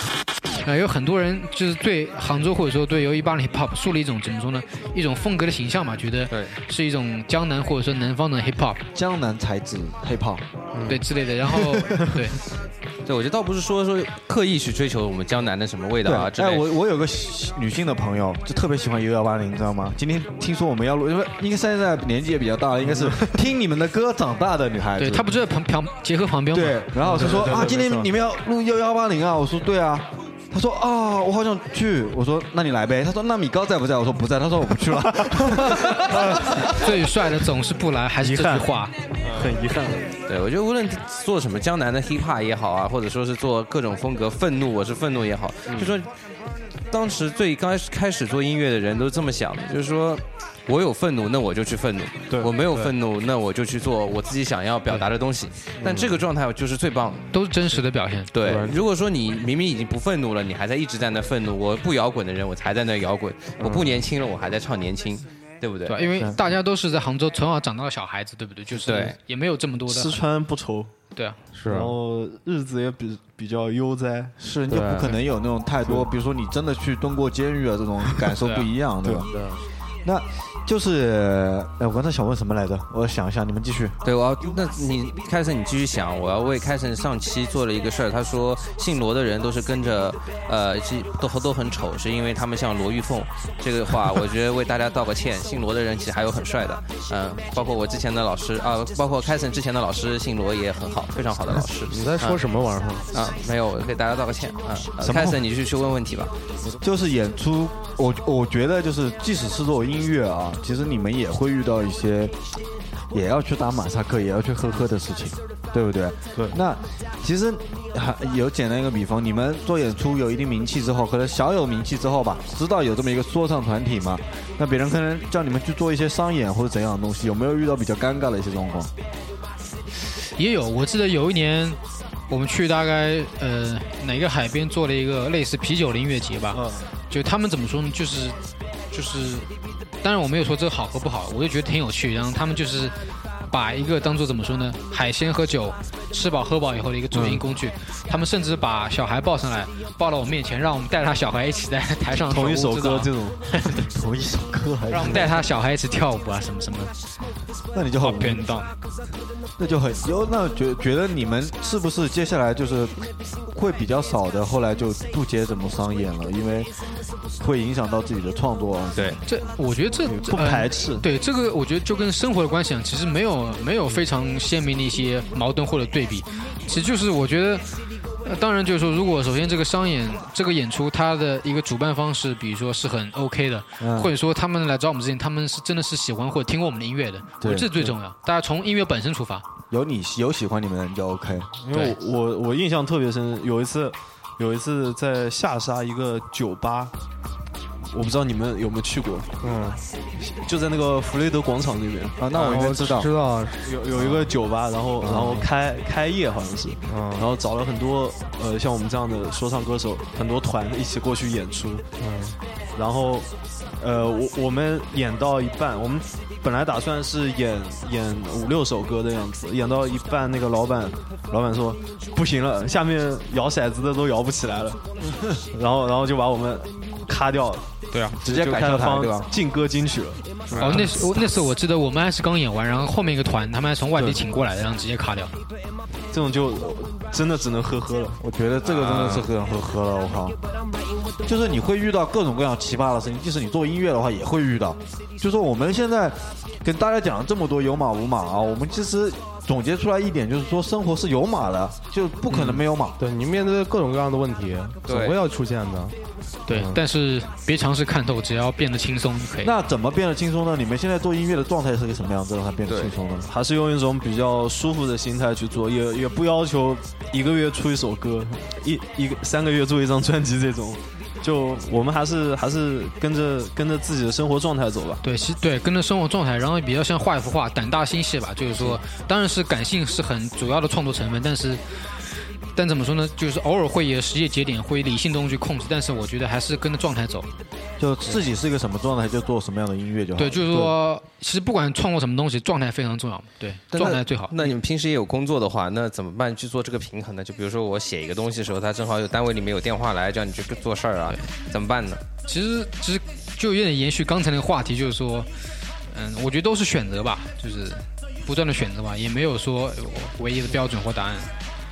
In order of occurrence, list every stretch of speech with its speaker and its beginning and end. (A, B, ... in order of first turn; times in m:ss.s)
0:00.6-0:08.8 A
0:06.3-0:06.6 B
0:08.9-0:10.4 C
0:10.8-0:11.0 B
0:10.9-0:12.4 A
0:13.0-0:16.7 B
0:16.0-0:25.3 C
0:25.0-0:27.3 A
0:26.5-0:36.5 C
0:27.1-0:28.1 D
0:36.6-0:38.9 A
0:38.2-0:38.7 E
0:39.3-0:40.1 E
0:40.3-0:46.1 B
0:45.7-0:46.0 D
0:46.9-0:57.3 B
0:55.8-0:56.2 D
0:57.3-0:58.3 A
0:58.3-1:06.0 B
0:58.4-0:58.8 D
1:03.6-1:03.9 D
1:05.9-1:10.2 A
1:08.8-1:09.2 B
1:09.9-1:10.9 E
1:11.1-1:11.4 A
1:11.5-1:12.0 D
1:11.6-1:14.3 E
1:14.4-1:19.3 C
1:14.7-1:15.2 D
1:18.4-1:18.7 A
1:19.3-1:19.6 D
1:20.0-1:24.0 C
1:24.0-1:42.4 B
1:41.9-1:43.1 D
1:43.1-1:46.3 B
1:45.0-1:45.4 C
1:46.8-1:52.4 C
1:53.1-2:08.9 C
2:10.4-2:18.4 A
2:16.5-2:16.9 E
2:18.9-2:19.5 A
2:20.0-2:22.9 A
2:23.5-2:33.7 A
2:32.2-2:33.4 E
2:33.7-2:35.3 C
2:34.9-2:36.9 A
2:37.7-2:38.5 C
2:38.0-2:38.7 A
2:39.6-2:46.7 C
2:47.4-2:49.2 C
2:49.3-2:57.6 A
2:50.1-2:51.0 E
2:58.2-3:09.4 A
3:03.8-3:04.1 C
3:07.4-3:07.7 C
3:09.7-3:11.5 C
3:11.6-3:16.9 E
3:17.9-3:19.3 E
3:19.4-3:19.8 D
3:20.2-3:22.2 E
3:22.2-3:23.1 C
3:22.3-3:24.3 D
3:23.6-3:31.8 E
3:25.0-3:25.4 C
3:26.9-3:27.3 D
3:32.0-3:32.4 D
3:32.7-3:44.8 E
3:45.5-3:47.7 E
3:48.2-3:49.3 C
3:48.2-3:50.7 E
3:50.6-3:55.3 A
3:56.1-3:58.2 E
3:58.2-4:00.4 C
4:01.2-4:13.0 C
4:13.0-4:15.9 D
4:14.9-4:15.2 B
4:16.5-4:19.5 A
4:16.5-4:16.8 D
4:19.4-4:23.3 C
4:22.7-4:22.9 B
4:23.3-4:35.0 E
4:35.0-4:41.6 A
4:42.5-4:47.3 A
4:47.8-4:50.7 C
4:50.2-4:54.4 A
4:53.7-5:02.0 B
5:02.2-5:05.3 A
5:05.9-5:11.3 A